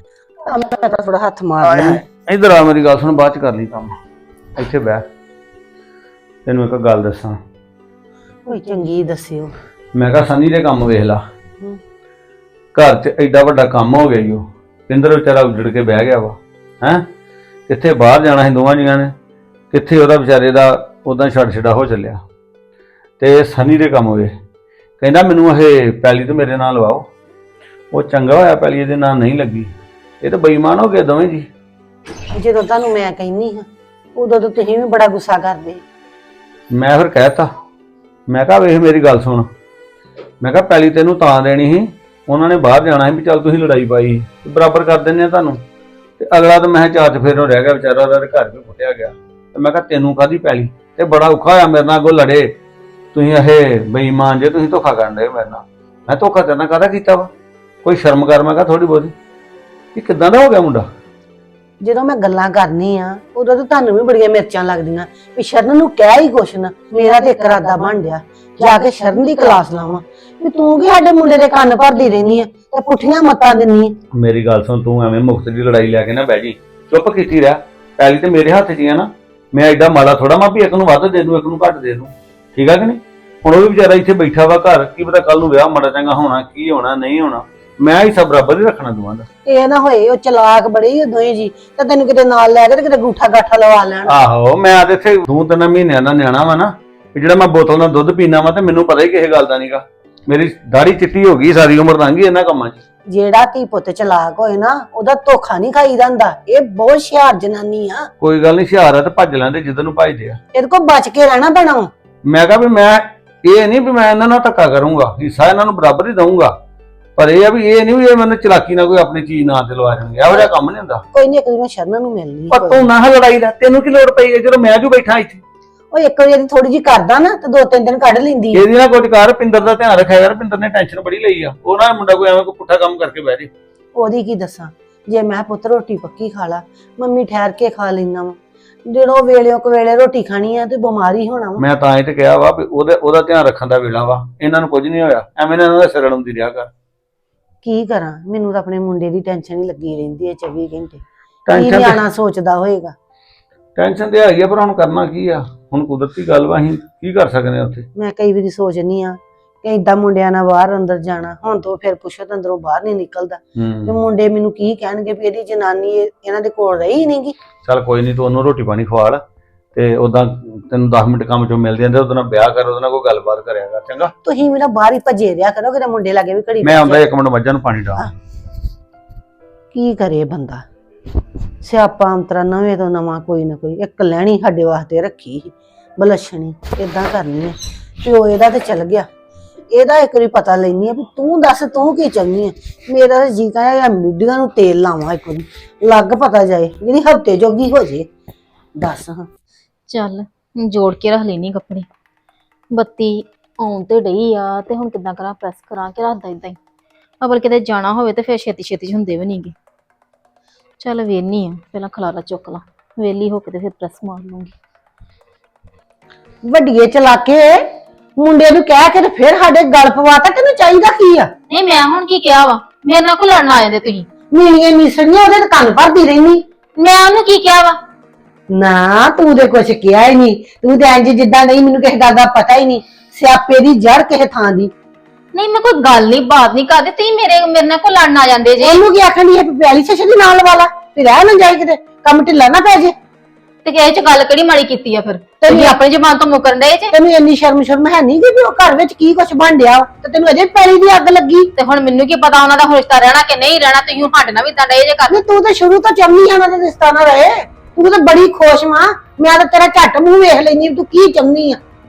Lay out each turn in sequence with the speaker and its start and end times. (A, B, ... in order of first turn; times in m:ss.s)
0:00.5-0:02.0 A
0:01.6-0:03.9 B
0:04.6-0:05.0 B
0:06.4-0:07.4 B
0:08.5-0:09.5 A
0:09.9-0:11.2 B
0:12.7-0:17.0 B
0:17.7-0:19.1 B
0:19.7-0:22.2 B
0:23.2-0:24.3 B
0:25.0-0:27.0 B
0:27.9-0:29.7 B
0:30.2-0:31.5 B
0:32.3-0:35.8 A
0:36.7-0:37.5 B
0:38.3-0:39.4 B
0:40.4-0:45.6 B
0:46.2-0:52.5 B
0:53.1-0:57.3 B
0:57.8-0:59.1 B
0:59.9-1:00.9 B
1:01.8-1:13.9 A
1:14.1-1:29.3 B
1:29.4-1:34.2 A
1:34.1-1:42.8 B
1:43.1-1:48.1 A
1:48.2-1:50.4 B
1:50.5-1:51.9 A
1:52.3-1:56.5 B
1:57.2-2:01.0 B
2:01.1-2:02.9 A
2:02.5-2:05.4 B
2:05.9-2:08.6 A
2:08.5-2:13.5 B
2:14.0-2:21.6 A
2:21.6-2:26.7 B
2:27.6-2:32.9 A
2:31.5-2:32.0 B
2:33.8-2:37.8 B
2:38.0-2:47.3 A
2:43.6-2:43.9 B
2:47.6-2:49.2 B
2:49.7-2:54.1 B
2:54.2-2:57.0 A
2:56.6-2:58.1 B
2:59.7-3:00.6 A
3:01.6-3:09.1 A
3:09.7-3:18.0 A
3:18.8-3:19.2 A
3:19.9-3:21.9 C
3:22.7-3:26.6 C
3:27.2-3:29.5 C
3:30.8-3:34.5 C
3:36.4-3:37.6 A
3:38.2-3:41.3 A
3:41.5-3:44.1 C
3:44.3-3:46.4 A
3:46.8-3:47.8 C
3:48.5-3:54.7 A
3:55.3-3:58.8 C
3:58.6-4:02.9 A
4:03.6-4:06.9 C
4:05.4-4:05.8 A
4:06.9-4:11.5 A
4:11.6-4:15.2 C
4:15.1-4:21.6 A